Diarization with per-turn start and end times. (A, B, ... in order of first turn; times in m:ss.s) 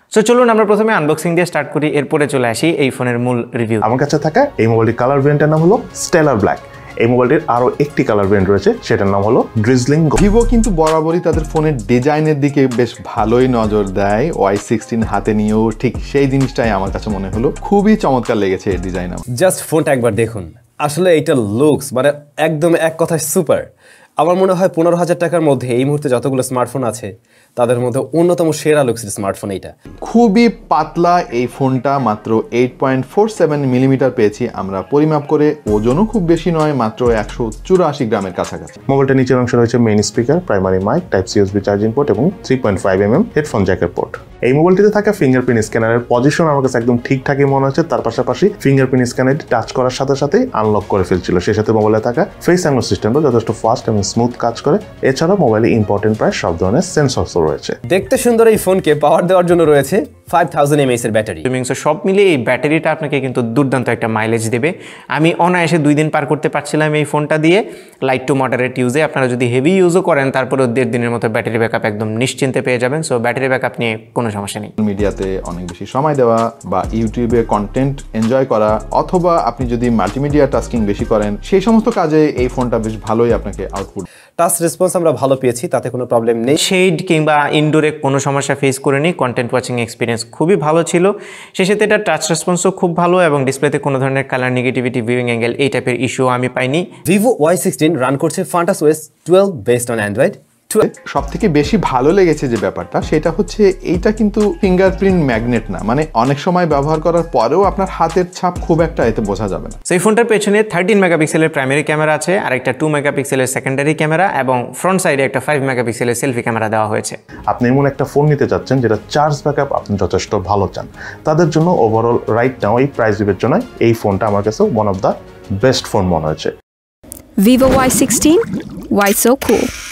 0:00.1-0:03.8 A
0:03.8-0:10.2 B
0:10.2-0:19.2 C
0:19.4-0:23.7 D
0:24.2-0:29.7 D
0:30.0-0:38.8 C
0:38.9-0:57.8 B
0:57.9-1:01.4 D
1:01.4-1:14.7 A
1:14.8-1:24.1 C
1:24.4-1:26.6 D
1:26.6-1:36.8 A
1:37.0-1:40.9 D
1:40.8-1:49.8 C
1:49.9-1:57.2 A
1:57.5-2:06.5 B
2:07.4-2:09.7 E